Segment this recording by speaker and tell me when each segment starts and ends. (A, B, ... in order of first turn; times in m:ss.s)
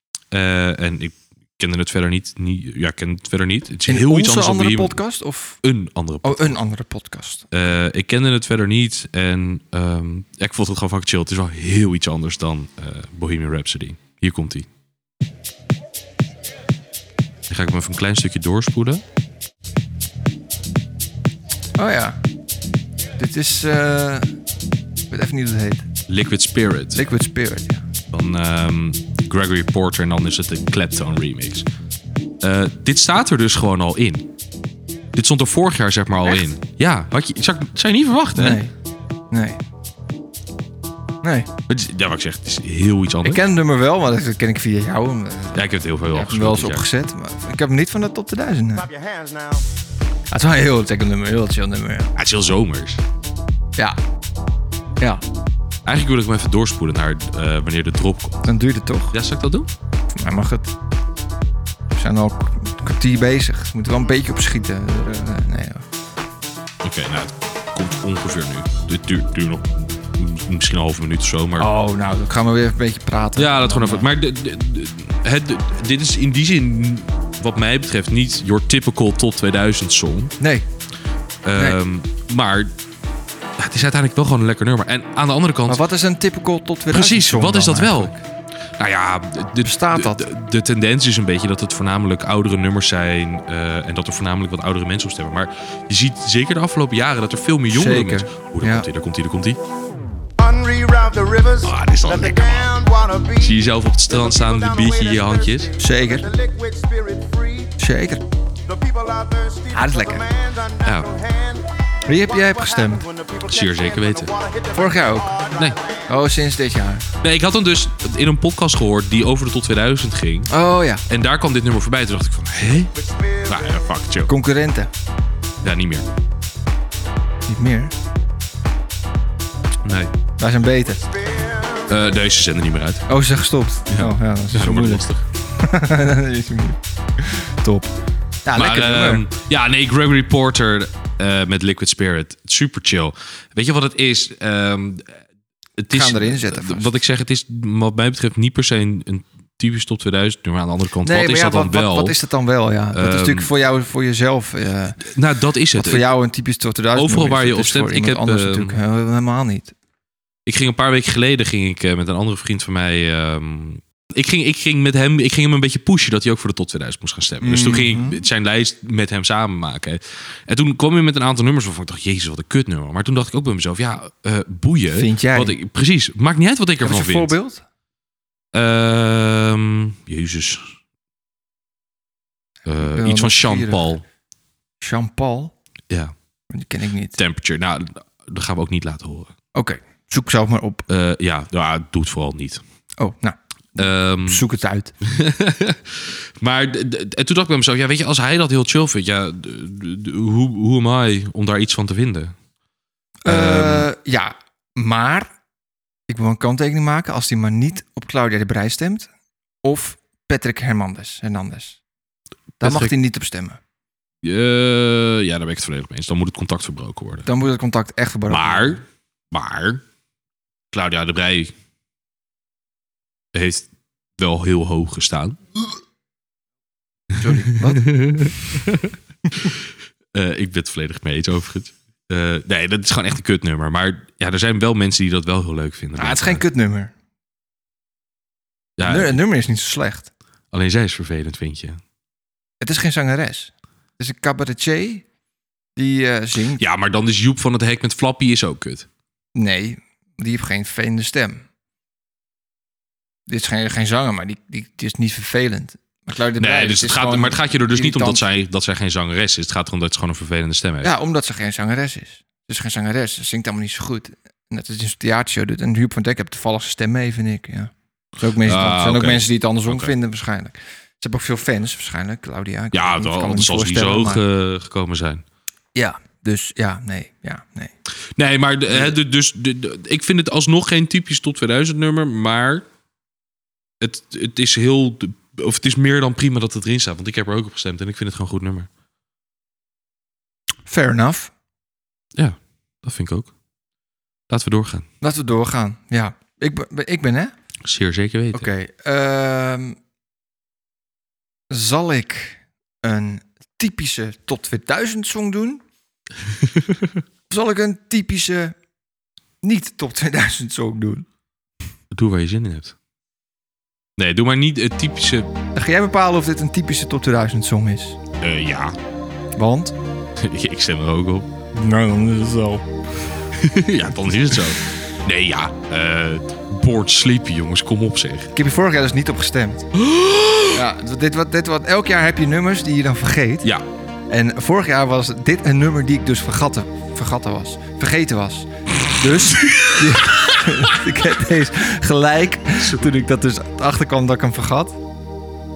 0:00.3-0:05.0 A
0:03.9-0:05.6 B
0:05.6-0:06.6 A
0:06.2-0:07.4 B
0:07.5-0:14.7 A
0:17.5-0:19.0 A
0:21.8-0:22.2 B
0:23.2-0:24.3 B
0:25.1-0:25.9 B
0:26.1-0:27.0 A
0:27.0-0:27.8 B
0:28.1-0:31.7 A
0:32.4-0:34.2 A
0:35.2-0:38.6 A
0:38.4-0:38.7 B
0:39.3-0:39.6 B
0:41.2-0:41.5 B
0:41.7-0:43.4 A
0:43.2-0:48.9 B
0:45.5-0:46.8 A
0:48.8-0:49.7 C
0:50.3-0:52.1 B
0:52.2-0:53.0 A
0:55.8-0:58.5 A
0:58.4-0:59.2 B
0:59.1-0:59.7 A
1:00.2-1:00.7 B
1:01.9-1:05.8 B
1:06.8-1:11.7 A
1:11.6-1:14.1 B
1:13.4-1:20.4 A
1:20.4-1:20.6 B
1:21.4-1:22.7 A
1:23.6-1:25.8 A
1:25.7-1:28.2 B
1:26.9-1:28.1 A
1:28.8-1:39.6 A
1:29.6-1:30.3 B
1:37.7-1:38.9 B
1:40.4-1:47.7 C
1:41.6-1:42.7 A
1:43.4-1:45.7 A
1:45.8-1:46.3 B
1:47.8-1:48.2 B
1:48.7-1:51.7 C
1:49.7-1:50.2 B
1:50.8-1:51.1 A
1:52.1-1:53.0 B
1:52.2-1:56.0 C
1:53.5-1:54.3 A
1:54.7-1:55.4 B
1:56.1-1:57.1 B
1:57.2-2:00.5 A
2:00.5-2:01.0 B
2:01.1-2:02.9 A
2:03.0-2:03.7 C
2:03.5-2:04.3 A
2:04.3-2:04.9 B
2:05.6-2:06.1 A
2:07.5-2:07.9 B
2:09.8-2:10.1 A
2:10.4-2:11.0 B
2:11.2-2:11.9 C
2:11.9-2:13.0 A
2:13.1-2:17.9 B
2:13.9-2:15.2 A
2:18.4-2:19.3 B
2:18.6-2:25.2 A
2:25.8-2:32.2 A
2:25.9-2:27.0 B
2:31.0-2:35.0 B
2:32.9-2:33.5 A
2:35.0-2:36.1 A
2:35.8-2:39.7 B
2:37.0-2:38.8 A
2:40.5-2:57.3 A
2:47.4-2:48.2 B
2:55.0-2:55.6 B
2:56.8-2:57.6 B
2:58.5-3:00.8 A
3:02.7-3:04.0 A
3:02.8-3:03.9 B
3:04.8-3:05.5 B
3:06.5-3:07.2 B
3:07.2-3:09.3 A
3:09.5-3:10.8 B
3:10.9-3:12.6 A
3:13.0-3:14.9 B
3:13.8-3:14.4 A
3:15.0-3:22.4 A
3:23.2-3:25.3 B
3:23.3-3:23.9 A
3:26.1-3:29.1 B
3:29.6-3:31.8 B
3:32.6-3:33.6 B
3:32.6-3:32.9 A
3:34.2-3:37.3 A
3:37.3-3:38.8 B
3:38.3-3:39.8 A
3:40.7-3:41.5 A
3:43.3-3:45.4 A
3:47.2-3:48.0 B
3:47.5-3:56.4 A
3:56.0-3:56.9 B
3:58.8-3:59.2 A
3:58.8-4:00.1 B
4:00.5-4:01.8 A
4:02.6-4:05.0 B
4:05.8-4:06.6 B
4:06.6-4:08.9 A
4:09.4-4:11.4 B
4:13.3-4:18.2 B
4:16.4-4:20.9 A
4:20.8-4:34.2 B
4:28.4-4:29.9 A
4:32.7-4:35.2 A
4:35.8-4:37.7 B
4:38.2-4:42.7 A
4:38.7-4:39.0 B
4:43.8-4:48.7 A
4:50.7-4:51.3 B
4:52.2-4:53.3 A
4:54.3-4:54.9 A
4:55.0-4:57.3 B
4:57.6-4:58.5 A
4:58.3-4:59.8 B
5:01.5-5:05.6 B
5:06.4-5:07.0 A
5:07.3-5:08.6 B
5:09.4-5:11.1 B
5:11.9-5:12.8 A
5:14.0-5:15.3 A
5:15.6-5:18.0 B
5:18.2-5:18.8 A
5:19.4-5:19.8 B
5:20.2-5:21.3 A
5:21.5-5:22.6 B
5:23.3-5:28.3 A
5:28.3-5:29.7 B
5:29.8-5:30.6 A
5:30.5-5:33.5 B
5:34.1-5:44.8 B
5:39.3-5:40.5 A
5:42.6-5:42.9 A